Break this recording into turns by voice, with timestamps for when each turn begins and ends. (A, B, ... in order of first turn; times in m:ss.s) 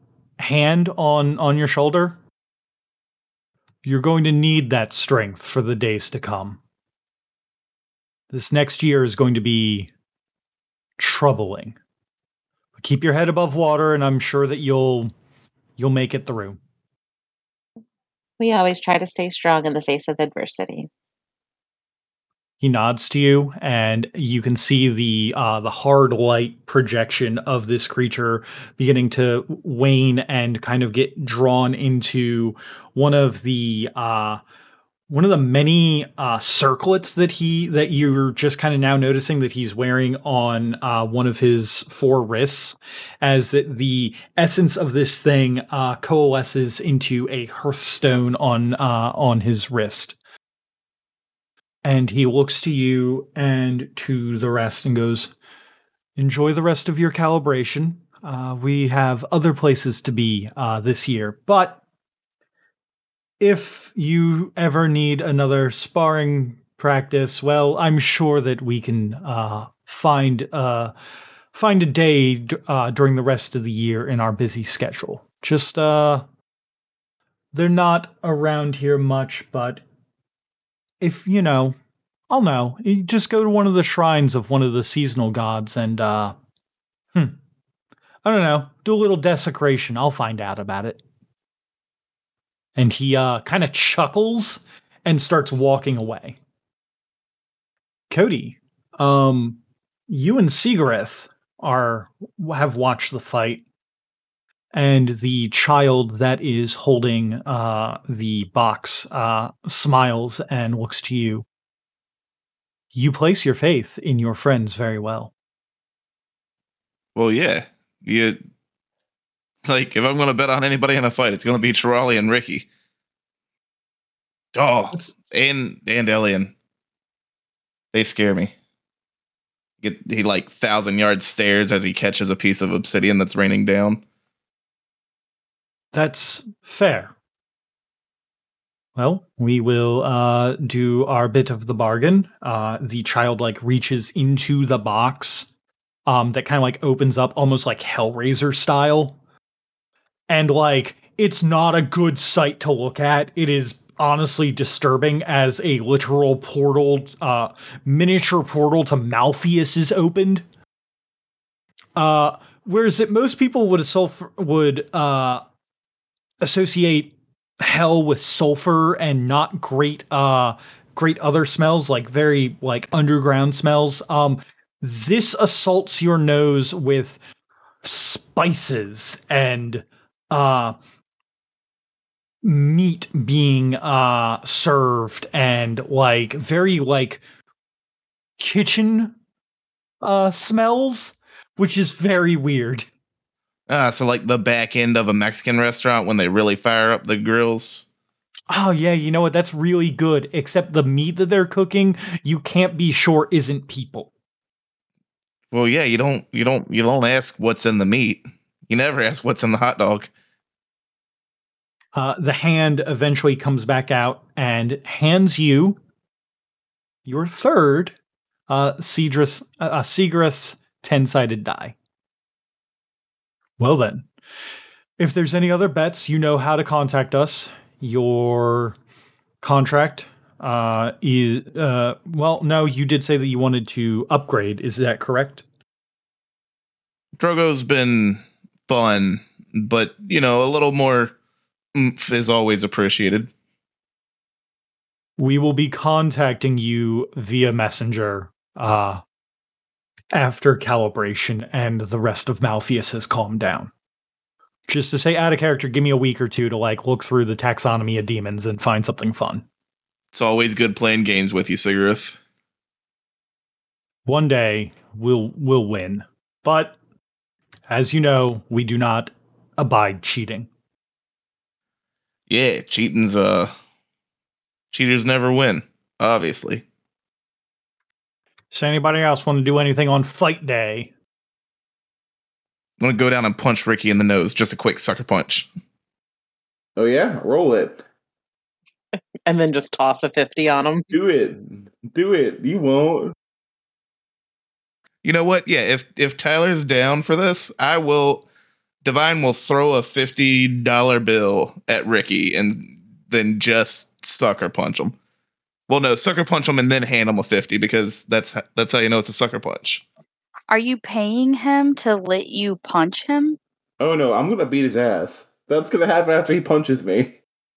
0:00.4-0:02.2 A
0:03.8-0:06.6 A
0:08.3-0:09.9 A
0:11.0-0:11.8 A
0:12.8-0:15.1 A
0:15.8-0:16.6 A
0:18.4-0:20.9 B
0:22.6-0:34.4 A
0:35.1-0:50.2 A
0:51.8-0:55.3 A
0:56.2-1:01.8 A
1:03.4-1:10.9 A
1:11.5-1:16.2 A
1:17.5-1:19.8 A
1:21.0-1:21.8 A
1:22.3-1:26.4 A
1:28.2-1:31.0 A
1:32.8-1:36.4 A
1:38.1-1:43.6 A
1:44.7-1:51.4 A
1:52.9-1:55.3 A
1:57.1-1:58.4 C
1:59.6-2:02.6 C
2:04.5-2:06.5 C
2:07.9-2:08.5 C
2:09.8-2:14.0 C
2:15.9-2:17.1 A
2:19.0-2:25.5 A
2:26.1-2:29.2 A
2:30.3-2:40.4 A
2:42.0-2:45.4 A
2:46.4-2:57.2 A
2:57.8-3:00.8 A
3:02.4-3:07.2 A
3:08.4-3:09.2 A
3:10.0-3:12.9 A
3:13.7-3:17.9 C
3:18.5-3:24.1 A
3:25.5-3:30.1 C
3:32.0-3:35.8 A
3:37.0-3:37.9 A
3:38.5-3:41.8 A
3:43.6-3:44.1 A
3:45.0-3:48.8 A
3:49.4-3:55.4 A
3:57.2-4:01.1 C
4:01.7-4:03.3 C
4:05.2-4:09.0 A
4:10.1-4:13.7 A
4:14.7-4:19.4 A
4:20.1-4:22.2 C
4:24.0-4:26.8 A
4:27.7-4:30.5 A
4:32.3-4:33.5 C
4:34.7-4:36.6 C
4:38.5-4:40.9 A
4:42.8-4:45.5 C
4:46.8-4:47.8 D
4:49.3-4:50.9 B
4:50.9-4:53.1 D
4:55.0-4:58.2 C
4:58.8-5:04.9 C
5:05.7-5:09.8 C
5:10.5-5:13.4 E
5:13.8-5:17.2 D